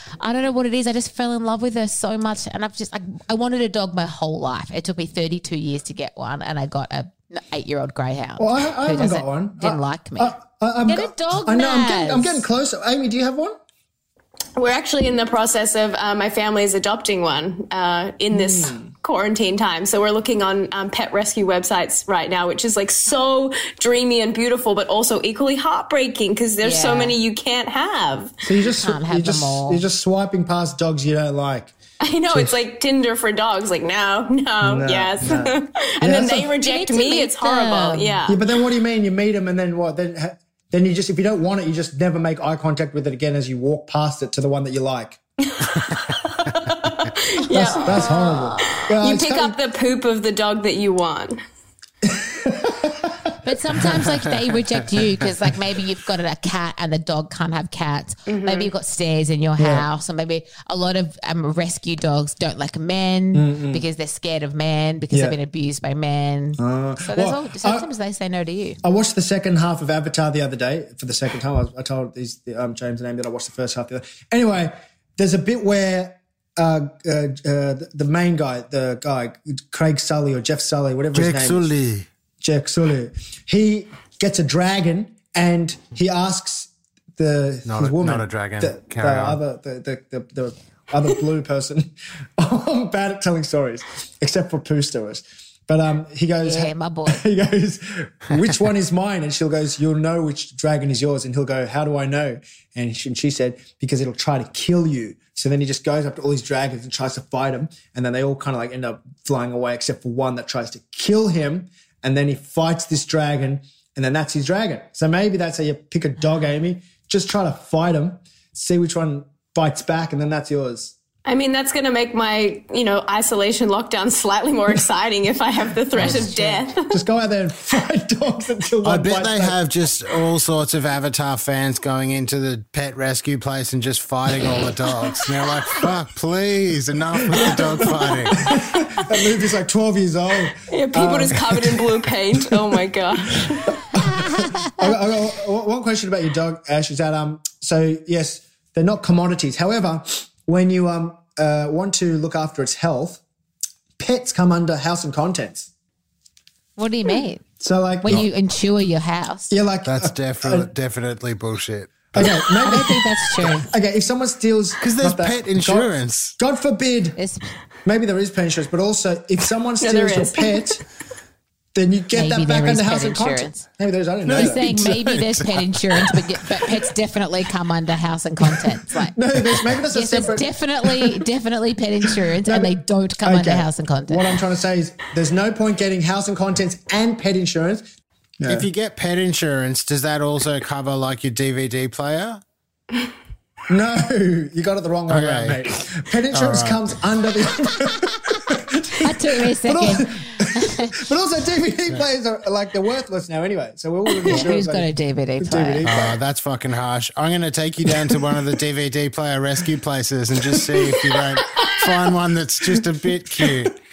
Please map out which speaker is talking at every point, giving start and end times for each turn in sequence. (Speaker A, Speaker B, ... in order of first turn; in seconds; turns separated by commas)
Speaker A: 0.2-12.4, Speaker B: 8.4-13.5, Speaker C: 14.6-28.3, Speaker B: 18.3-18.9, Speaker A: 26.6-27.2, Speaker B: 28.4-31.7, Speaker A: 28.6-29.8, Speaker C: 32.0-38.4, Speaker B: 32.3-32.6, Speaker B: 34.6-36.5, Speaker A: 36.6-38.2, Speaker B: 38.3-45.2, Speaker C: 45.6-51.4, Speaker B: 47.5-49.6, Speaker A: 47.9-48.9, Speaker B: 52.0-53.1, Speaker A: 53.4-68.8, Speaker C: 58.3-58.7, Speaker B: 59.6-59.9, Speaker B: 63.3-63.8, Speaker B: 65.1-65.4, Speaker B: 66.6-67.9, Speaker B: 68.8-81.7, Speaker D: 81.1-82.1, Speaker B: 82.4-121.0, Speaker D: 87.7-89.4, Speaker A: 96.4-97.2, Speaker C: 121.2-127.0, Speaker A: 125.9-126.7, Speaker D: 126.0-126.3, Speaker B: 126.9-129.6, Speaker D: 128.8-138.3, Speaker B: 137.3-142.8, Speaker C: 140.7-143.8, Speaker B: 143.3-153.2, Speaker B: 154.0-155.7, Speaker A: 156.8-157.4, Speaker B: 157.6-158.2, Speaker A: 158.0-159.6, Speaker B: 159.5-160.7, Speaker D: 159.8-162.9, Speaker B: 162.1-163.0, Speaker A: 162.6-163.7, Speaker B: 163.7-167.2, Speaker D: 164.8-166.4, Speaker A: 167.2-167.5, Speaker B: 167.8-170.8, Speaker C: 169.8-170.8, Speaker B: 171.7-174.9, Speaker A: 172.1-173.7, Speaker D: 174.3-175.5, Speaker A: 174.3-179.2, Speaker B: 179.1-181.2, Speaker A: 179.9-184.4, Speaker B: 182.4-187.8, Speaker B: 188.4-188.7, Speaker D: 188.5-192.4, Speaker B: 193.7-204.9, Speaker D: 195.1-195.8, Speaker D: 196.3-196.9, Speaker A: 199.0-201.0, Speaker C: 204.2-204.5, Speaker A: 204.3-205.9, Speaker B: 205.4-206.2, Speaker D: 205.8-213.8